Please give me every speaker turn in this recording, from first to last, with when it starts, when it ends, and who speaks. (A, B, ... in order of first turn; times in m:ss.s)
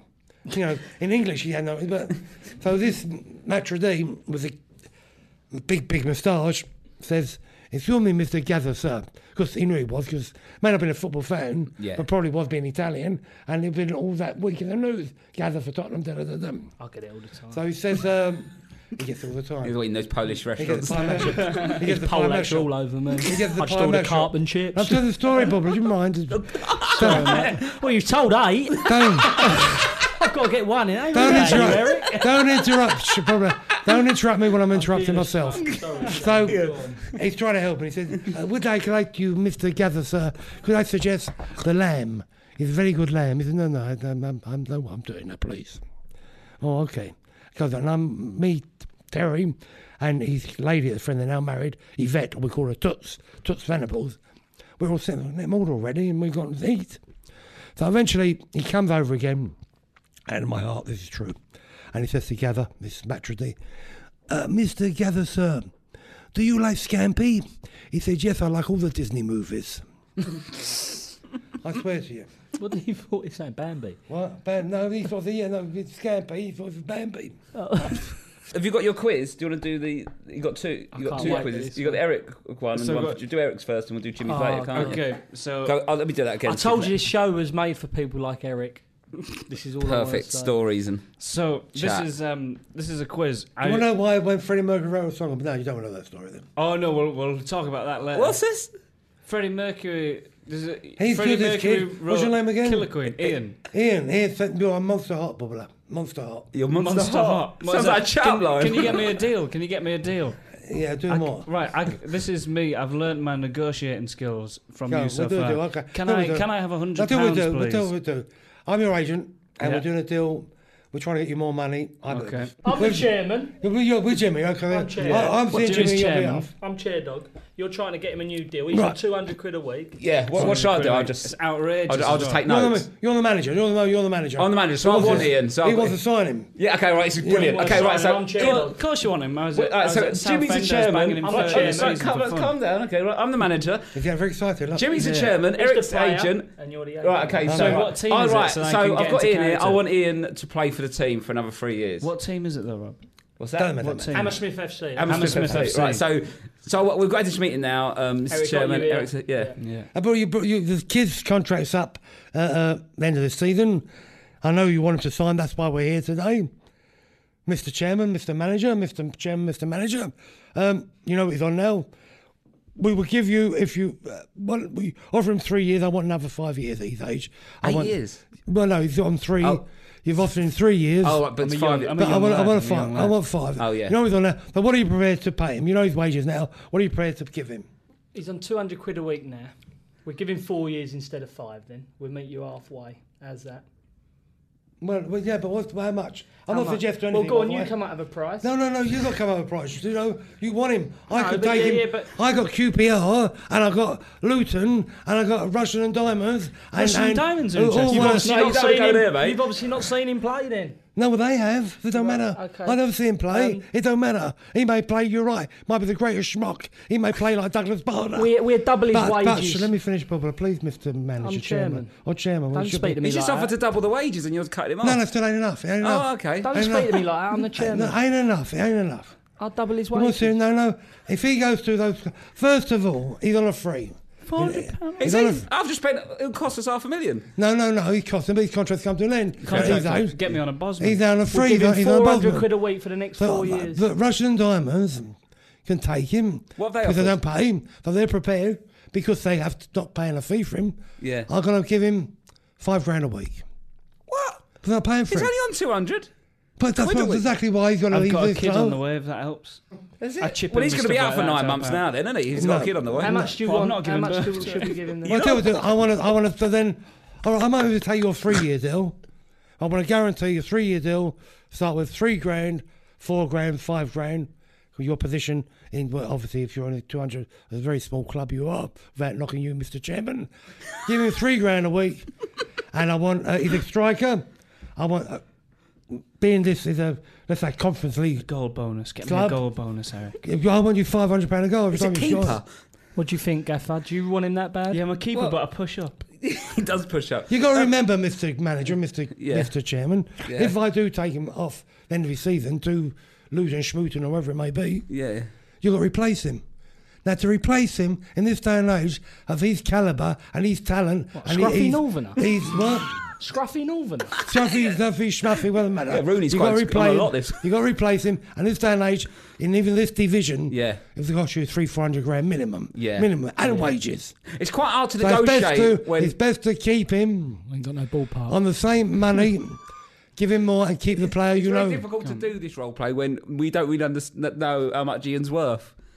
0:00.5-0:04.6 A
0:05.5-0:16.7 A
0:11.8-0:12.0 B
0:16.8-0:17.6 C
0:17.5-0:19.7 A
0:19.6-0:21.3 B
0:20.6-0:22.7 A
0:21.8-0:25.1 C
0:23.2-0:27.5 A
0:26.5-0:27.6 B
0:26.9-0:32.2 C
0:28.8-0:29.7 A
0:31.1-0:45.8 A
0:31.5-0:31.8 B
0:34.7-0:37.0 C
0:36.4-0:37.1 B
0:46.6-0:54.2 A
0:54.8-0:57.0 A
0:57.8-0:59.6 A
1:00.3-1:01.4 A
1:01.9-1:03.6 A
1:04.3-1:05.7 A
1:06.3-1:09.8 A
1:11.6-1:12.3 A
1:12.6-1:14.0 C
1:14.1-1:17.4 A
1:17.5-1:18.1 C
1:18.5-1:26.9 B
1:20.9-1:22.0 C
1:22.7-1:23.2 D
1:24.3-1:25.0 C
1:24.7-1:25.8 D
1:26.4-1:30.5 C
1:29.8-1:31.1 B
1:31.2-1:33.8 D
1:31.7-1:32.1 B
1:33.6-1:36.5 A
1:36.6-1:38.4 D
1:38.1-1:38.7 B
1:39.2-1:43.6 D
1:41.0-1:43.1 A
1:43.7-1:46.5 A
1:46.5-1:49.1 B
1:46.7-1:50.4 D
1:50.6-1:51.5 A
1:51.1-1:57.9 D
1:54.9-2:06.5 A
2:02.1-2:02.5 D
2:02.6-2:03.5 C
2:04.7-2:10.0 C
2:05.0-2:06.4 D
2:08.7-2:09.0 A
2:10.0-2:12.8 B
2:10.3-2:12.4 D
2:12.4-2:16.5 A
2:14.4-2:16.0 B
2:16.6-2:18.7 B
2:17.2-2:17.7 A
2:17.2-2:18.8 C
2:18.3-2:22.5 D
2:19.5-2:23.9 B
2:21.2-2:22.0 C
2:23.9-2:24.9 A
2:24.7-2:32.1 B
2:25.0-2:25.3 D
2:25.5-2:27.8 C
2:27.5-2:27.8 A
2:27.5-2:29.8 D
2:32.0-2:33.0 D
2:33.4-2:33.8 B
2:33.6-2:34.3 A
2:33.8-2:36.0 D
2:34.1-2:35.7 C
2:35.0-2:39.5 B
2:38.3-2:39.6 C
2:39.6-2:39.9 D
2:39.9-2:43.9 A
2:44.4-2:46.5 A
2:47.4-2:51.9 A
2:52.8-3:01.2 A
2:57.6-2:58.2 B
3:01.0-3:02.5 B
3:01.4-3:03.2 D
3:01.9-3:07.7 A
3:03.6-3:04.0 B
3:08.1-3:09.5 C
3:10.0-3:13.6 C
3:14.8-3:17.7 A
3:16.5-3:18.5 C
3:18.4-3:28.3 A
3:21.1-3:22.1 C
3:26.7-3:28.2 D
3:27.9-3:29.5 B
3:27.9-3:30.8 C
3:31.0-3:43.0 A
3:31.9-3:32.8 C
3:33.3-3:33.6 C
3:38.2-3:39.7 C
3:41.2-3:41.9 C
3:42.5-3:43.5 C
3:43.0-3:45.0 B
3:44.8-3:49.2 A
3:45.8-3:46.7 B
3:46.4-3:47.9 C
3:49.4-3:50.4 C
3:49.9-3:55.5 A
3:54.2-3:55.4 D
3:55.0-3:57.2 B
3:57.4-4:02.5 A
3:59.4-4:01.0 D
3:59.5-3:59.8 B
4:01.3-4:03.8 C
4:03.2-4:13.4 A
4:06.6-4:07.2 B
4:11.0-4:11.3 B
4:14.1-4:14.4 B
4:14.6-4:15.3 A
4:15.1-4:16.1 B
4:16.6-4:18.8 A
4:16.8-4:17.2 B
4:17.9-4:19.6 D
4:20.0-4:23.1 B
4:20.2-4:21.8 D
4:22.4-4:23.3 A
4:23.0-4:25.4 C
4:23.2-4:24.8 D
4:25.0-4:25.5 B
4:25.1-4:29.0 A
4:29.6-4:42.1 A
4:42.7-4:45.2 A
4:45.9-4:48.2 A
4:48.2-4:50.2 D
4:49.0-4:49.4 A
4:50.2-4:52.4 A
4:51.7-4:52.5 B
4:53.0-4:54.8 C
4:54.7-4:56.0 D
4:55.1-4:55.4 B
4:56.2-4:57.7 B
4:57.3-5:04.9 A
4:59.2-4:59.5 B
5:00.2-5:00.5 B
5:04.9-5:05.3 B
5:05.6-5:06.4 A
5:07.0-5:13.0 A
5:11.1-5:12.2 C
5:13.2-5:14.2 C
5:14.2-5:24.2 A
5:15.9-5:17.4 B
5:20.5-5:20.8 B
5:22.8-5:23.1 B
5:24.3-5:26.1 B
5:25.0-5:27.5 A
5:27.5-5:28.4 C
5:28.3-5:29.6 A
5:30.2-5:31.8 A
5:31.3-5:35.8 B